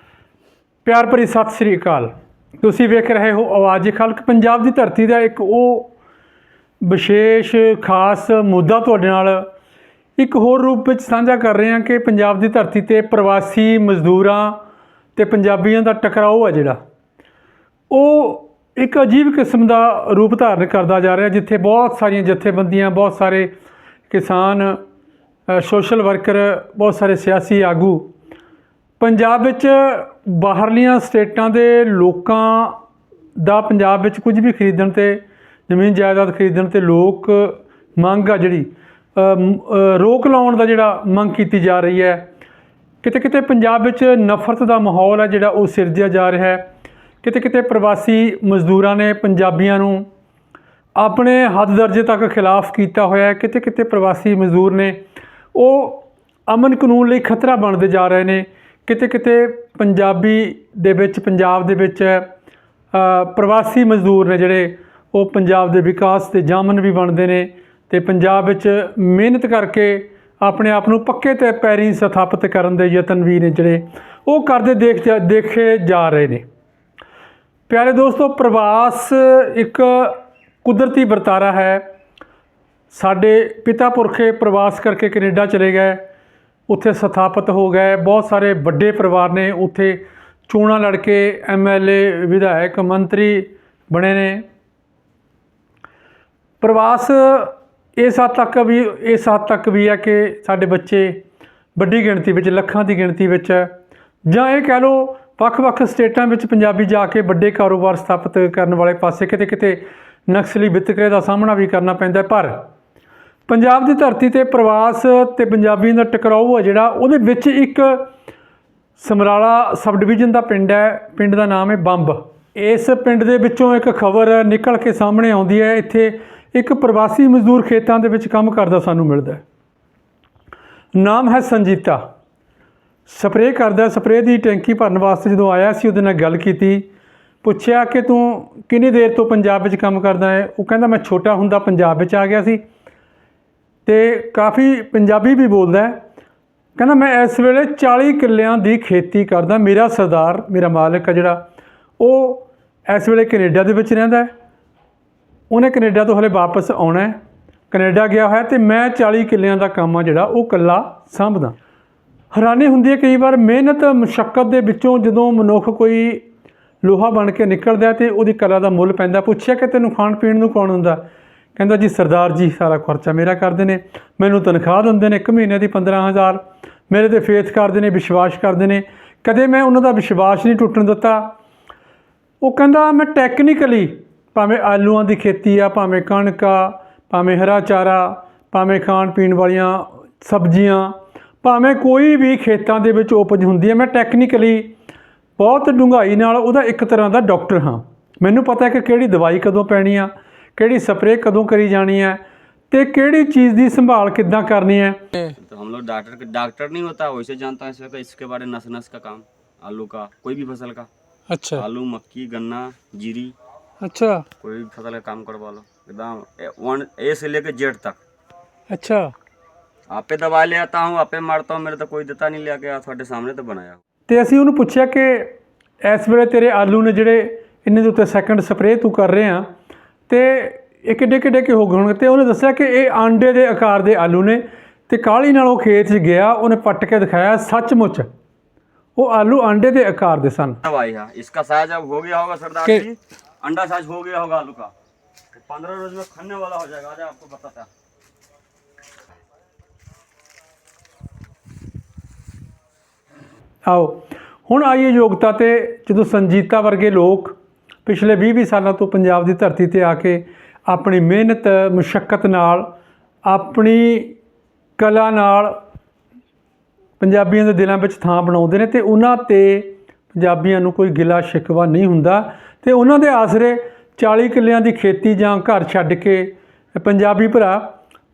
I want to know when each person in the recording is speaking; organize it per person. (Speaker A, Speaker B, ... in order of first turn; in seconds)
Speaker A: 0.8-5.9, 6.8-9.5, 10.2-14.6, 15.2-16.8, 17.9-23.5, 24.1-24.8, 25.5-28.1, 29.0-32.8, 33.4-42.3, 43.0-46.7, 47.2-50.1, 51.0-55.0, 55.5-62.3, 62.9-76.4, 77.7-81.8, 82.9-86.0, 86.7-94.5, 96.6-101.2, 101.8-103.7, 104.2-112.6, 113.5-118.1, 119.0-129.4, 130.9-132.0, 133.1-136.9, 137.4-142.6, 143.8-146.0, 146.8-151.4, 152.0-154.3, 155.5-157.2, 157.7-161.6, 162.3-166.2, 166.8-181.3, 182.4-194.7, 195.4-202.2, 202.7-205.3, 211.3-211.6, 213.8-214.2, 218.7-219.1, 224.1-229.4, 230.1-238.1, 238.9-240.6, 253.6-262.7, 263.2-264.2, 264.8-265.6, 267.0-277.7
Speaker B: 205.4-210.9, 211.5-213.3, 214.4-218.0, 219.9-223.8, 240.6-244.7, 245.3-247.7